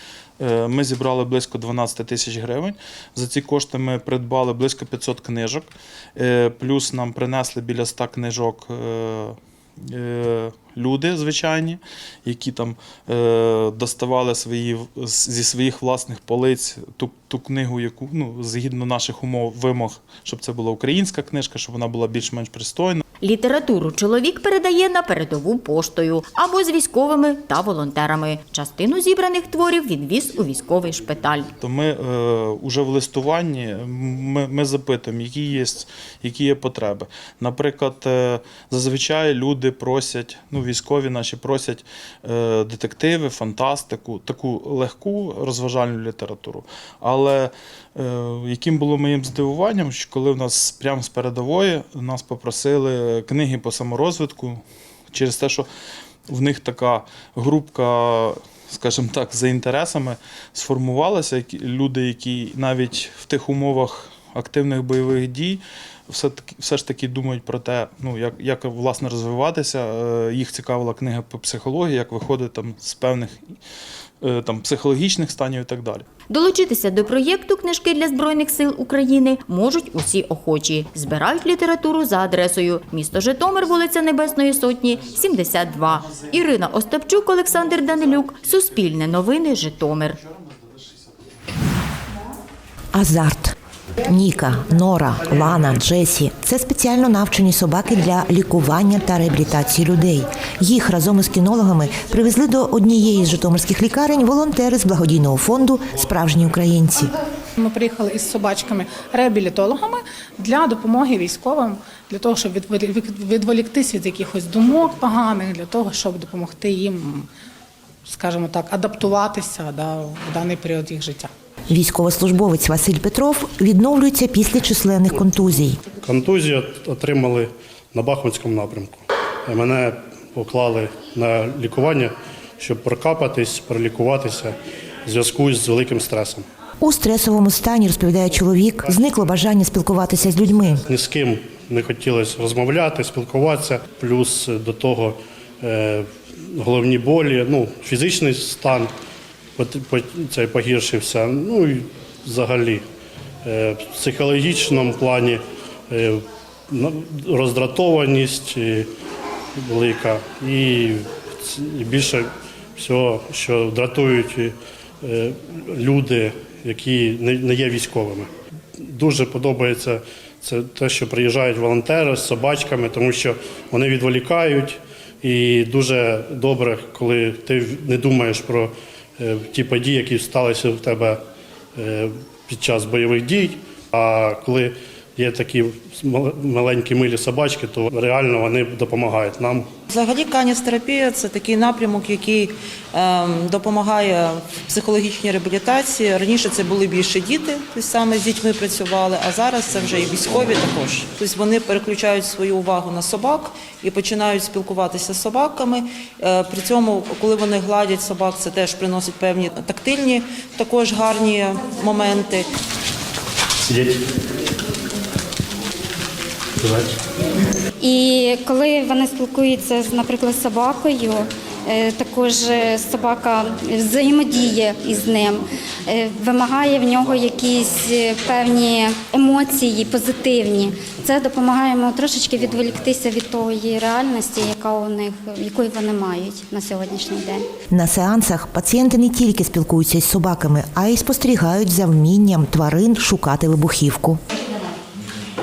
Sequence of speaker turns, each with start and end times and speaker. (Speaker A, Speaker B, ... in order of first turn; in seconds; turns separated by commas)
Speaker A: 0.4-23.0, Speaker B: 23.2-31.5, Speaker A: 31.6-55.7, Speaker A: 56.3-73.4, Speaker A: 74.2-76.0, Speaker B: 76.3-90.2, Speaker C: 92.9-93.5, Speaker C: 94.1-107.1, Speaker D: 107.6-117.2, Speaker D: 118.0-121.3, Speaker C: 121.7-125.8, Speaker E: 126.0-134.5, Speaker E: 135.1-136.4, Speaker C: 136.8-140.8, Speaker E: 138.3-139.1, Speaker E: 140.8-148.9, Speaker E: 149.6-152.8, Speaker E: 153.4-158.9, Speaker E: 159.6-181.2, Speaker E: 181.8-189.7, Speaker F: 189.9-212.4, Speaker G: 217.8-237.4, Speaker C: 237.7-244.2